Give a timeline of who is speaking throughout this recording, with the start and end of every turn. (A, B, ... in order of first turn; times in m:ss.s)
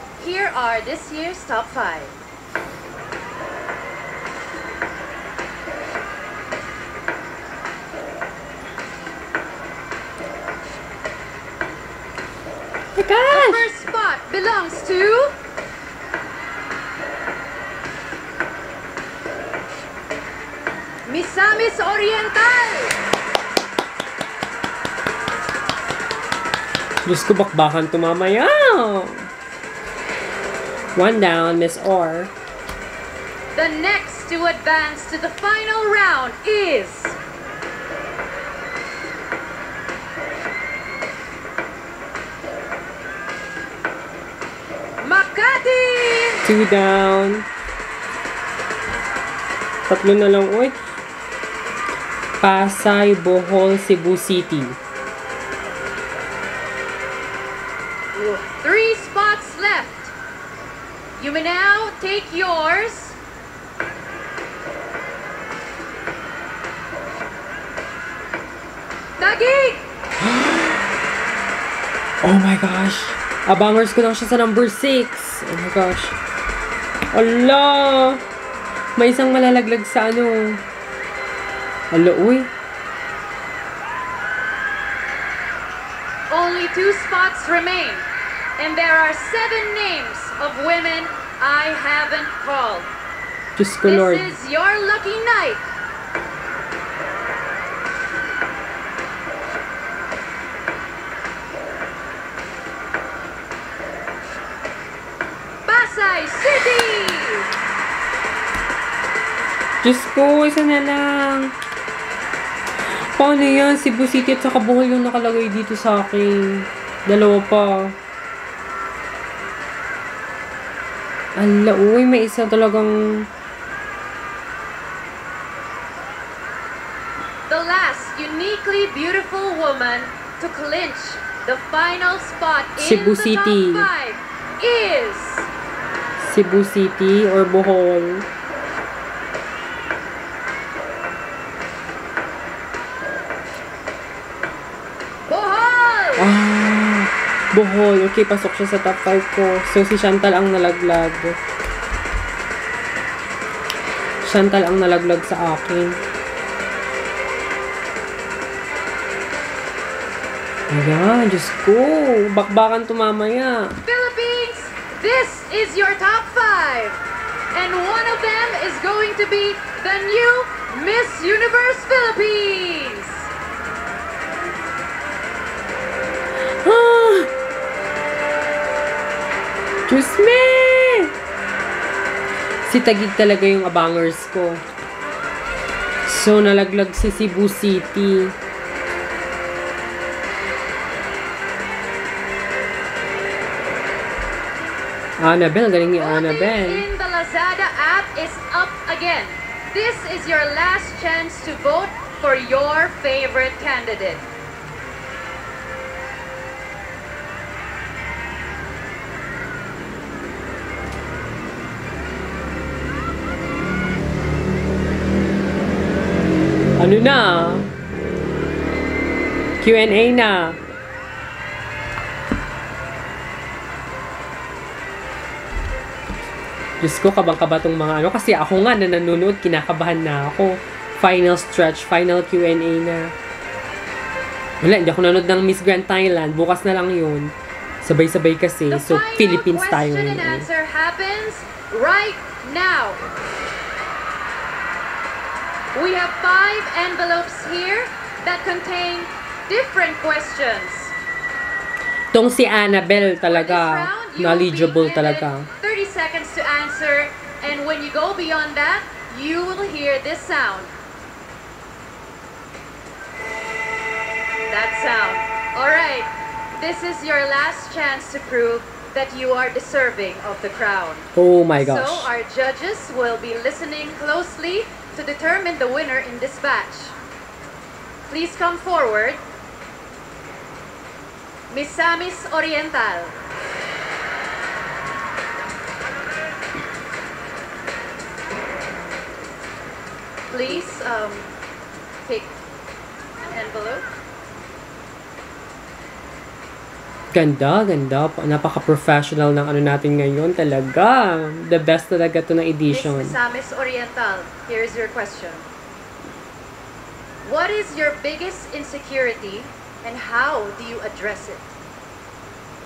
0:00.2-0:02.2 A
0:13.0-0:13.7 B
0:13.3-0:15.3 A
0:21.1-0:23.0 A
0:27.0-0:29.3 B
0:31.0-0:32.3 B
0:33.5-0:37.2 A
0:45.0-0:46.5 A
0:46.4-0:47.5 B
0:49.9-0:50.8 B
0:52.4-0:54.8 B
0:58.1-1:00.1 A
1:01.2-1:03.2 A
1:09.2-1:09.9 A
1:10.2-1:10.8 B
1:12.2-1:16.2 B
1:17.1-1:18.2 B
1:19.0-1:20.6 B
1:21.9-1:22.5 B
1:26.3-1:32.9 A
1:33.6-1:34.3 B
1:33.8-1:35.6 A
1:45.7-1:47.5 A
1:49.8-1:51.5 B
1:52.9-1:58.0 B
2:01.4-2:03.3 B
2:07.5-2:15.5 A
2:12.8-2:13.9 B
2:16.2-2:18.3 B
2:25.3-2:26.3 A
2:26.2-2:31.4 B
2:34.2-2:36.0 B
2:40.7-2:43.8 B
2:43.9-2:47.0 A
2:47.5-2:53.3 A
2:56.4-2:57.3 B
2:59.9-3:01.1 B
3:02.7-3:04.6 B
3:06.0-3:08.4 B
3:15.2-3:16.9 B
3:16.0-3:24.3 A
3:36.8-3:37.7 B
3:39.6-3:40.6 B
3:46.8-3:53.1 B
3:54.6-3:57.3 B
3:57.8-4:00.5 B
3:58.7-4:03.0 A
4:05.7-4:10.9 A
4:12.1-4:15.5 B
4:13.3-4:20.7 A
4:24.5-4:37.0 A
4:31.2-4:32.1 B
4:38.1-4:39.2 A
4:41.5-4:43.1 A
4:50.3-4:51.3 A
4:52.1-4:52.4 A
4:53.3-4:53.9 A
4:57.1-5:03.2 B
5:02.7-5:05.5 A
5:07.2-5:11.6 A